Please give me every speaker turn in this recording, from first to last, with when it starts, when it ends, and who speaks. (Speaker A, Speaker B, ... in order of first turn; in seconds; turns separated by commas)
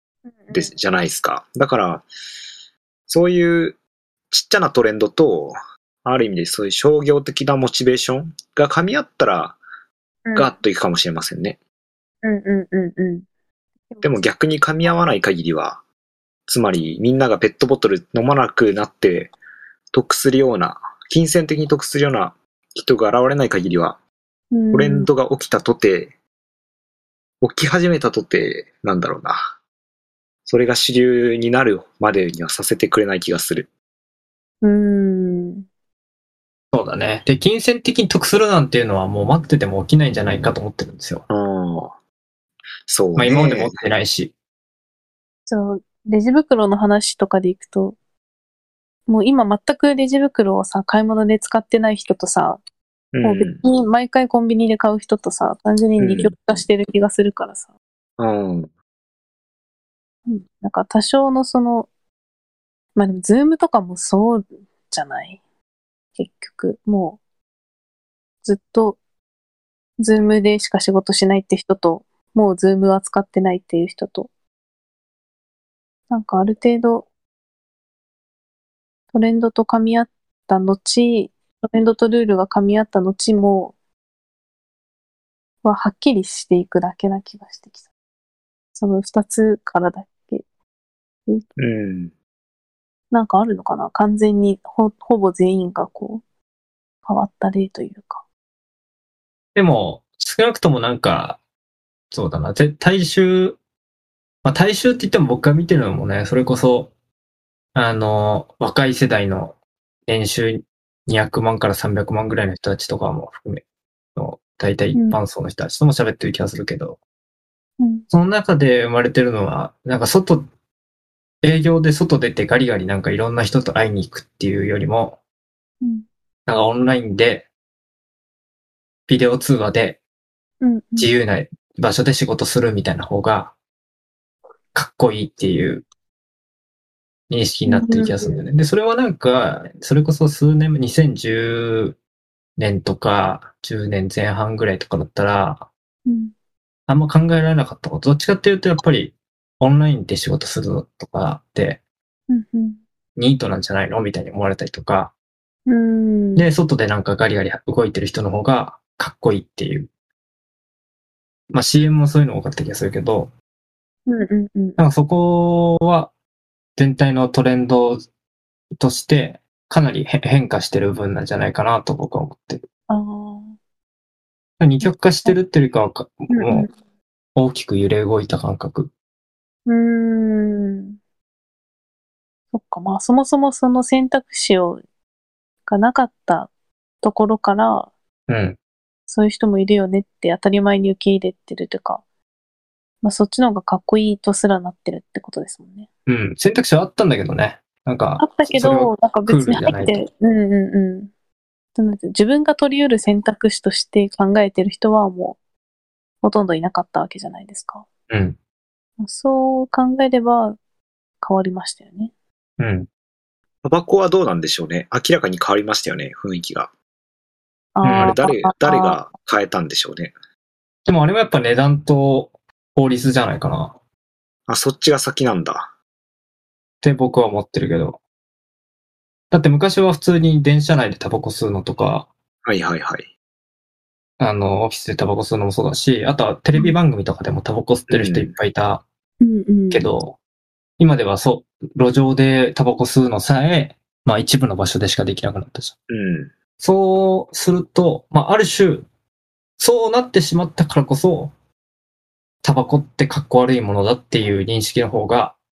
Speaker A: 0.3-0.7, Speaker B: 0.5-2.0, Speaker B: 3.1-3.8, Speaker B: 4.3-9.6, Speaker A: 10.2-10.5, Speaker B: 10.3-11.6, Speaker A: 12.2-13.2, Speaker A: 13.9-14.2, Speaker B: 14.0-15.8, Speaker B: 16.5-19.3, Speaker B: 19.9-24.0, Speaker A: 24.5-25.1, Speaker B: 24.7-26.1, Speaker B: 27.4-29.5, Speaker B: 30.4-33.7, Speaker A: 34.6-35.6, Speaker C: 36.7-41.2, Speaker B: 41.3-42.0, Speaker B: 42.9-43.7, Speaker C: 43.1-44.3, Speaker A: 45.5-48.0, Speaker A: 49.1-52.6, Speaker B: 53.1-53.6, Speaker A: 53.2-57.7, Speaker B: 56.0-56.3, Speaker B: 58.2-58.7, Speaker A: 60.3-61.9, Speaker A: 63.0-65.4, Speaker A: 66.1-67.2, Speaker A: 68.4-69.0, Speaker A: 70.0-74.3, Speaker A: 76.1-77.0, Speaker A: 79.1-83.7, Speaker A: 85.6-87.8, Speaker A: 88.8-90.4, Speaker B: 91.6-92.1, Speaker A: 93.1-96.2, Speaker A: 97.0-98.2, Speaker C: 99.5-101.4, Speaker C: 102.1-103.6, Speaker C: 104.4-106.9, Speaker C: 107.7-113.6, Speaker C: 114.1-117.0, Speaker A: 117.8-118.0, Speaker C: 118.1-120.5, Speaker C: 121.4-125.2, Speaker C: 126.5-127.5, Speaker C: 129.1-130.0, Speaker A: 130.6-131.1, Speaker C: 131.0-133.5, Speaker C: 134.7-135.8, Speaker C: 137.3-142.0, Speaker A: 137.7-138.4, Speaker C: 142.6-145.7, Speaker A: 146.1-146.3, Speaker C: 146.9-151.8, Speaker A: 152.3-152.8, Speaker C: 153.2-155.1, Speaker A: 155.7-156.5, Speaker C: 156.3-159.9, Speaker C: 161.5-163.3, Speaker A: 164.1-164.8, Speaker C: 164.8-166.1, Speaker C: 166.8-168.0, Speaker C: 168.8-172.6, Speaker A: 172.9-173.5, Speaker C: 174.6-176.7, Speaker A: 174.8-175.3, Speaker A: 176.3-176.7, Speaker C: 177.3-178.9, Speaker A: 179.7-181.0, Speaker A: 182.5-184.8, Speaker A: 185.7-186.5, Speaker A: 187.0-187.9, Speaker C: 188.3-188.6, Speaker A: 189.1-192.0, Speaker A: 193.0-195.9, Speaker C: 196.1-200.0, Speaker A: 198.2-201.1, Speaker A: 201.8-205.4, Speaker A: 206.2-207.8, Speaker C: 208.1-208.4, Speaker A: 209.0-210.6, Speaker A: 211.2-212.1, Speaker C: 212.6-212.9, Speaker B: 213.6-216.7, Speaker A: 217.7-219.0, Speaker C: 217.8-218.2, Speaker B: 218.0-220.1, Speaker C: 220.8-223.8, Speaker B: 224.5-225.7, Speaker C: 226.8-228.0, Speaker C: 229.3-232.1, Speaker B: 232.4-233.1, Speaker C: 234.2-238.8, Speaker B: 237.9-238.3, Speaker A: 239.2-239.8, Speaker C: 239.7-240.2, Speaker C: 240.8-245.7, Speaker B: 245.9-246.3, Speaker C: 246.6-248.8, Speaker C: 249.6-251.3, Speaker C: 252.4-255.3